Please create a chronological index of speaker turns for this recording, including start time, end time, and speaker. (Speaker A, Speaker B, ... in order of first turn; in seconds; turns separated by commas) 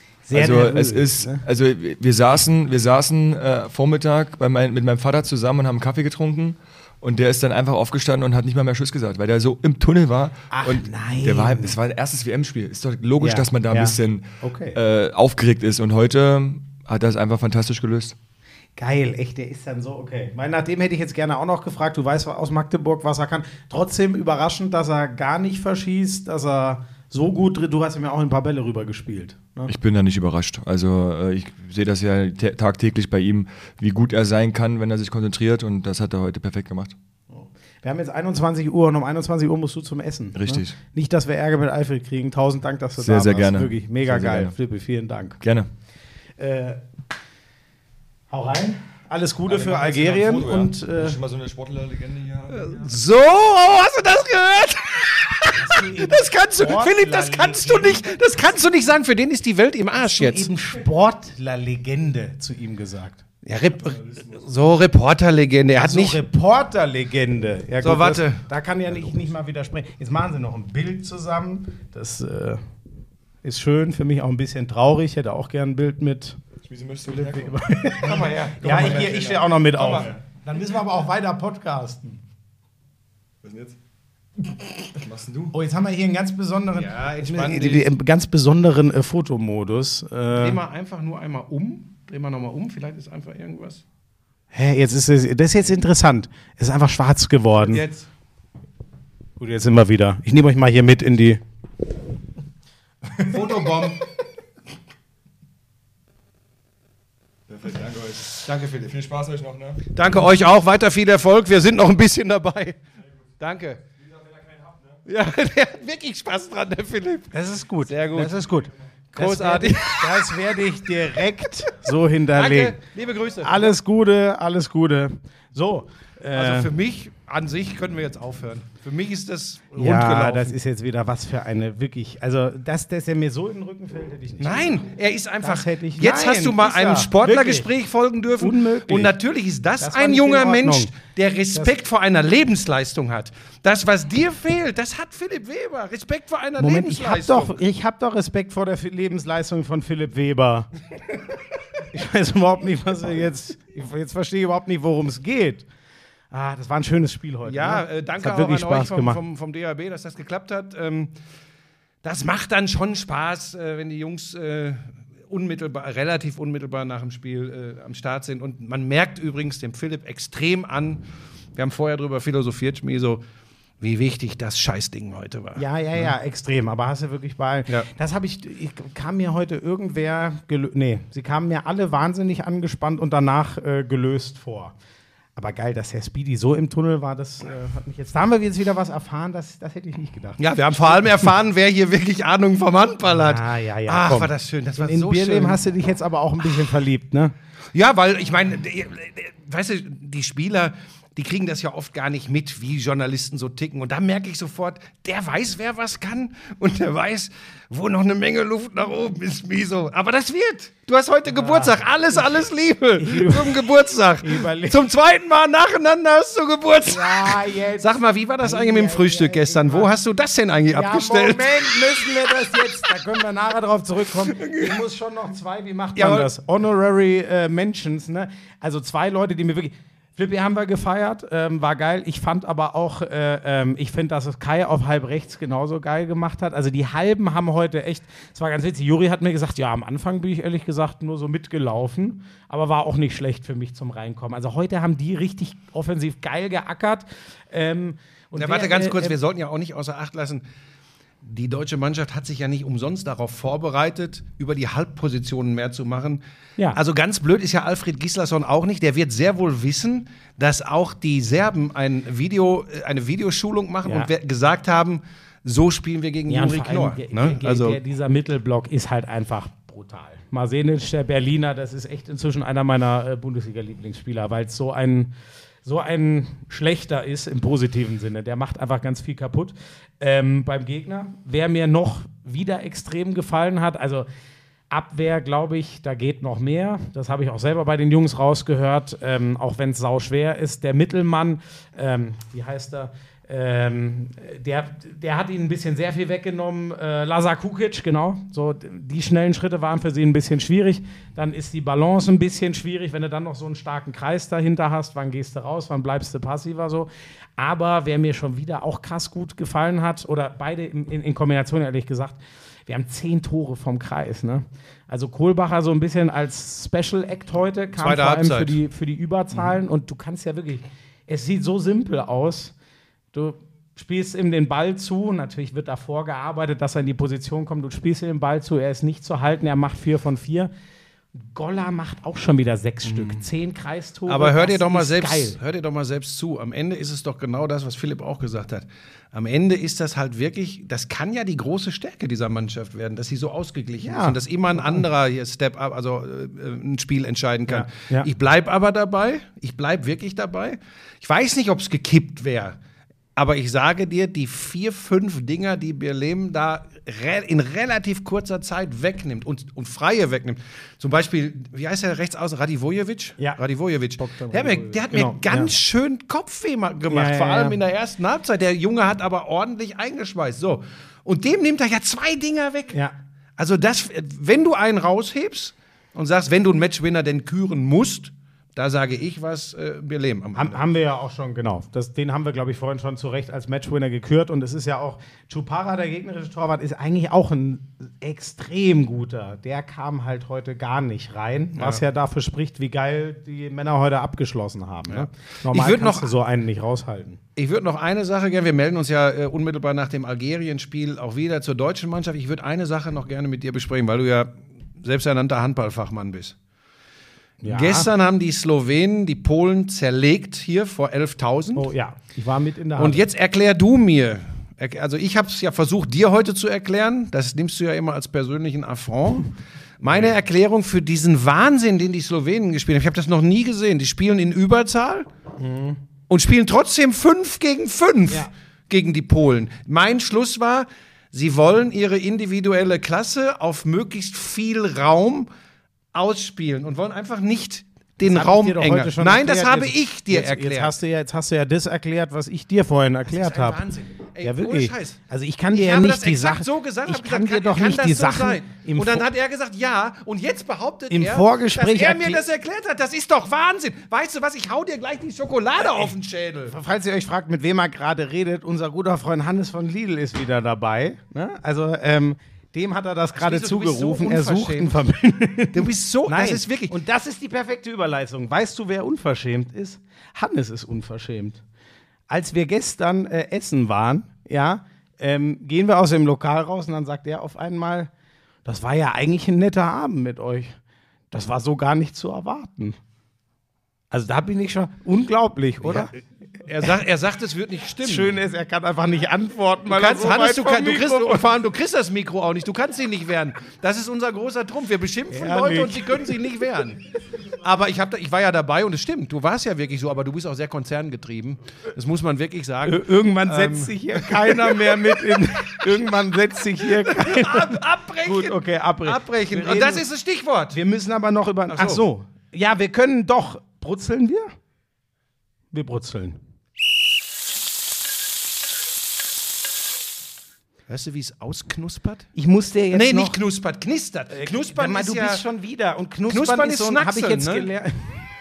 Speaker A: 0.3-1.4, Speaker B: 0.3-18.2, Speaker A: 10.5-11.7, Speaker A: 13.2-14.8, Speaker A: 18.8-29.7, Speaker B: 29.7-37.0, Speaker A: 37.3-45.4, Speaker B: 40.4-40.8, Speaker B: 43.0-44.5, Speaker B: 45.4-45.7, Speaker A: 46.4-46.8, Speaker A: 48.3-51.2, Speaker B: 49.5-52.9, Speaker C: 52.5-60.5, Speaker A: 55.5-58.3, Speaker A: 60.0-63.2, Speaker C: 63.5-66.2, Speaker A: 65.8-72.6, Speaker C: 67.8-68.4, Speaker A: 73.4-76.4, Speaker B: 76.6-77.6, Speaker A: 77.1-82.2, Speaker C: 78.0-80.1, Speaker B: 83.4-83.8, Speaker B: 85.0-85.5, Speaker A: 85.5-90.6, Speaker C: 86.7-87.9, Speaker C: 90.4-93.8, Speaker A: 94.5-97.8, Speaker C: 97.7-98.1, Speaker A: 99.4-101.4, Speaker C: 103.2-104.0, Speaker B: 107.5-109.9, Speaker C: 108.4-108.9, Speaker C: 109.9-112.8, Speaker C: 113.4-113.8, Speaker C: 115.1-118.3, Speaker A: 117.3-122.8, Speaker C: 119.2-120.7, Speaker C: 122.3-123.7, Speaker A: 123.4-126.7, Speaker C: 126.3-130.6, Speaker A: 129.8-134.8, Speaker C: 134.4-147.6, Speaker A: 135.4-137.7, Speaker A: 138.4-139.1, Speaker A: 139.8-140.9, Speaker A: 146.6-150.7, Speaker A: 151.9-155.7, Speaker A: 156.3-159.2, Speaker C: 157.4-161.1, Speaker C: 162.0-171.1, Speaker C: 171.6-173.2, Speaker C: 173.8-176.1, Speaker A: 175.6-184.7, Speaker A: 185.4-191.3, Speaker C: 190.4-195.6, Speaker A: 193.1-197.3, Speaker C: 197.7-222.9, Speaker A: 211.3-212.2, Speaker A: 213.0-213.7, Speaker A: 214.2-214.8, Speaker A: 216.9-217.9, Speaker A: 218.4-219.9, Speaker A: 220.7-249.2, Speaker C: 224.2-224.8, Speaker C: 226.0-226.3, Speaker C: 248.4-250.4, Speaker C: 251.2-256.2, Speaker C: 256.7-267.8, Speaker A: 263.9-264.1, Speaker A: 266.3-275.1, Speaker A: 275.6-284.1, Speaker A: 284.7-322.5, Speaker C: 317.8-318.6, Speaker A: 323.1-330.5, Speaker A: 331.3-335.4, Speaker C: 332.9-333.2, Speaker C: 334.1-352.6, Speaker A: 343.8-344.8, Speaker A: 347.5-348.1, Speaker C: 353.2-372.8, Speaker A: 364.0-365.5, Speaker A: 366.9-367.6, Speaker C: 373.4-380.6, Speaker A: 380.4-397.2, Speaker C: 391.6-391.8, Speaker C: 394.9-396.1, Speaker C: 397.4-406.4, Speaker A: 407.4-407.9, Speaker C: 407.5-411.7, Speaker A: 411.6-413.0, Speaker C: 412.8-425.1, Speaker A: 425.4-425.8, Speaker C: 426.1-435.3, Speaker C: 435.9-440.7, Speaker A: 438.0-443.6, Speaker C: 443.1-445.0, Speaker A: 444.2-449.1, Speaker C: 445.5-456.6, Speaker A: 450.9-452.2, Speaker A: 455.6-455.9, Speaker A: 456.5-471.4, Speaker C: 463.1-464.7, Speaker C: 465.5-466.7, Speaker A: 472.1-477.9, Speaker A: 478.4-480.6, Speaker A: 481.1-482.8, Speaker A: 483.9-485.9, Speaker C: 485.6-485.9, Speaker C: 486.4-488.2, Speaker A: 487.8-491.2, Speaker C: 489.7-505.2, Speaker A: 495.1-496.1, Speaker A: 502.6-509.8, Speaker C: 506.6-510.6, Speaker A: 510.5-514.3, Speaker C: 511.5-511.8, Speaker A: 515.5-516.2, Speaker C: 520.7-522.1, Speaker A: 522.1-523.2, Speaker C: 522.7-525.2, Speaker A: 524.1-528.1, Speaker C: 526.1-527.5